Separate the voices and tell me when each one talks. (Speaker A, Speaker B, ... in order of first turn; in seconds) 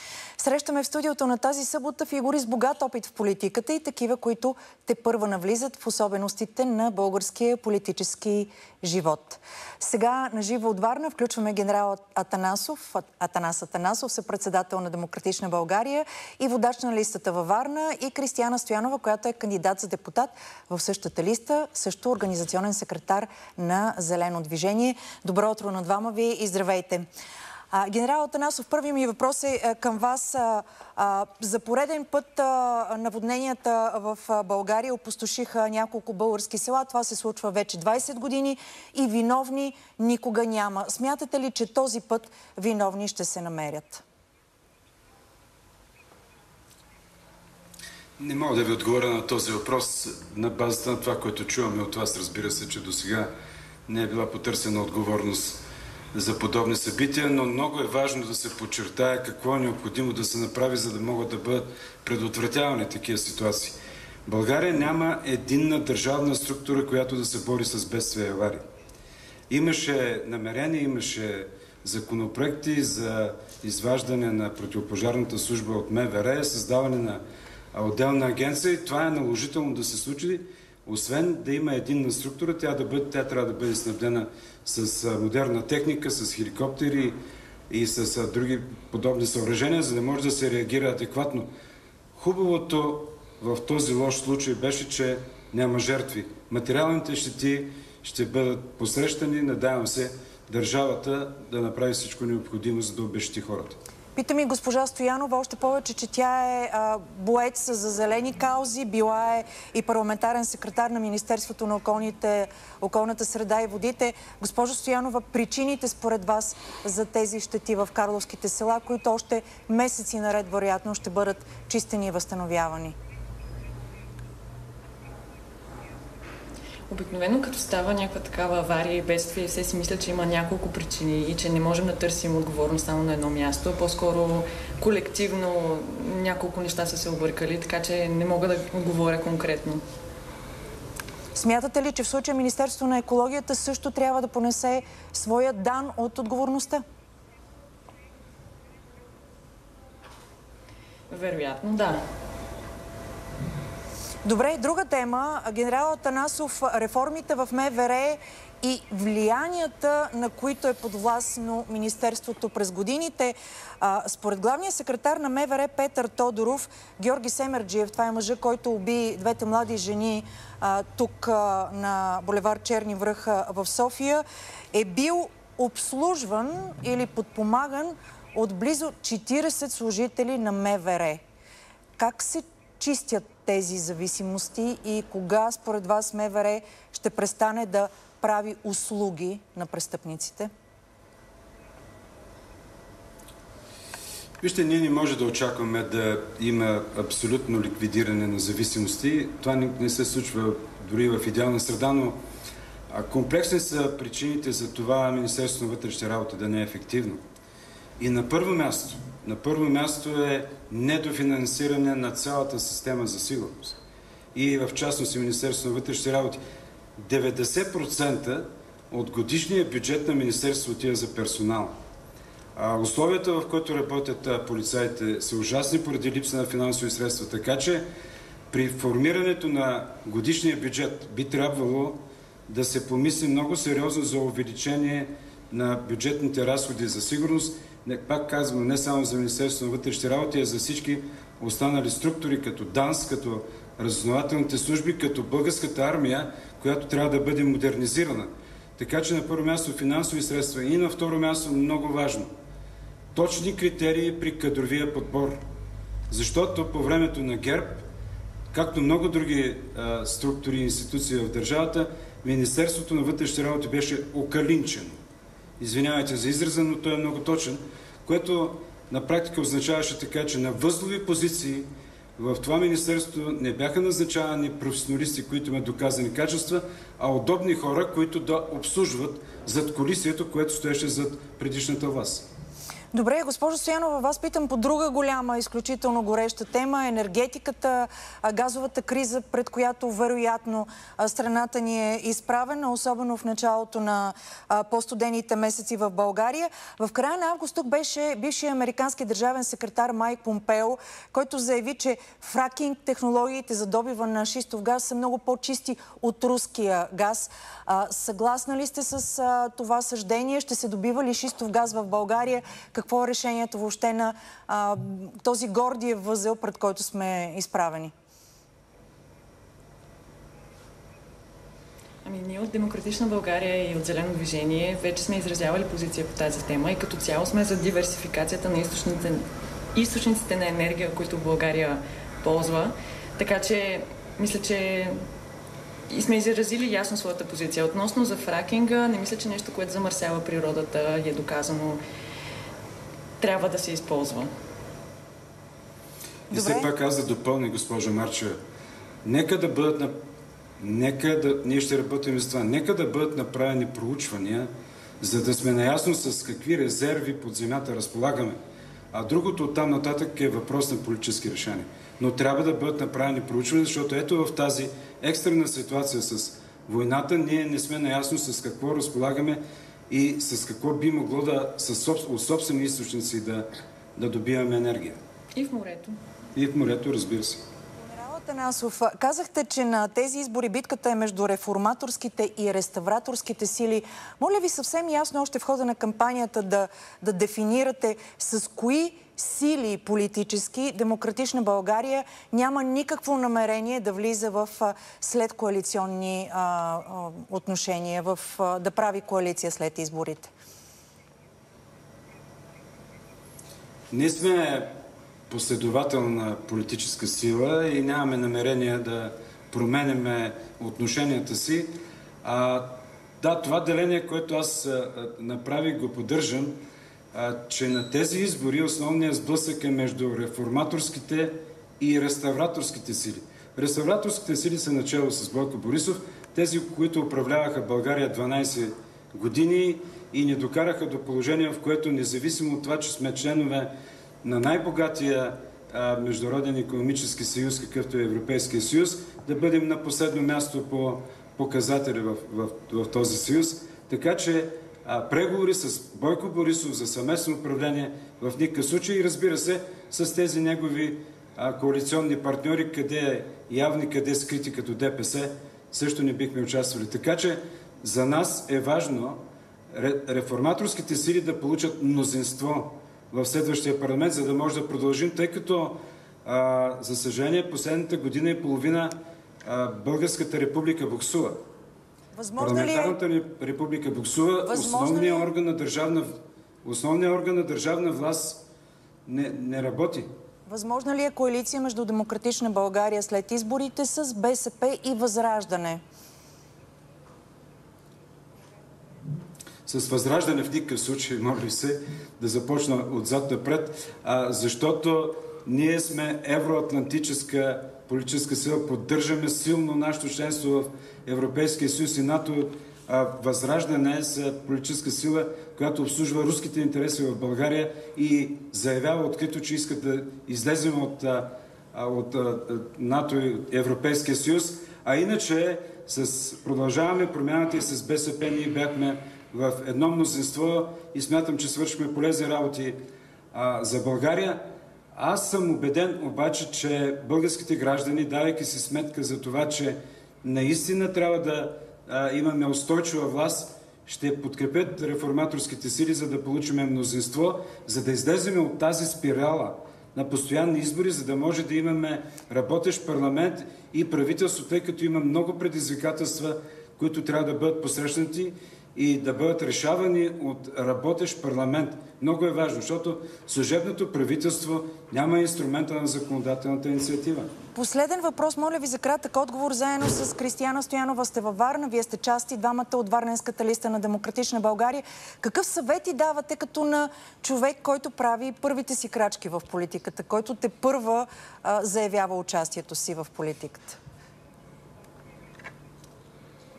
Speaker A: 0.4-27.1, 27.7-44.0, 104.2-122.9, 141.3-146.8, 154.2-181.2, 182.0-190.5, 282.9-317.9, 346.3-346.7, 377.8-400.3, 472.1-473.0, 474.5-475.3, 480.5-485.8, 557.5-573.8
Speaker B: 48.2-53.3, 53.9-55.6, 56.1-68.6, 69.5-77.2, 77.7-87.2, 87.7-91.5, 92.2-103.8, 194.4-202.2, 202.9-207.2, 208.0-213.8, 214.3-216.4, 217.0-221.7, 222.5-227.8, 228.5-252.3, 253.1-255.4, 256.1-257.9, 258.5-264.9, 265.6-282.2, 346.3-348.4, 349.0-349.9, 350.6-358.4, 358.9-375.0, 376.3-377.4, 403.9-404.7, 405.3-416.6, 417.1-433.7, 434.2-471.4, 472.4-476.1, 476.6-478.4, 479.1-480.1, 489.7-522.8, 523.3-524.4, 524.9-557.3
Speaker C: 126.9-139.8, 151.1-152.0, 322.0-335.0, 335.9-341.8, 343.2-344.3, 375.4-376.0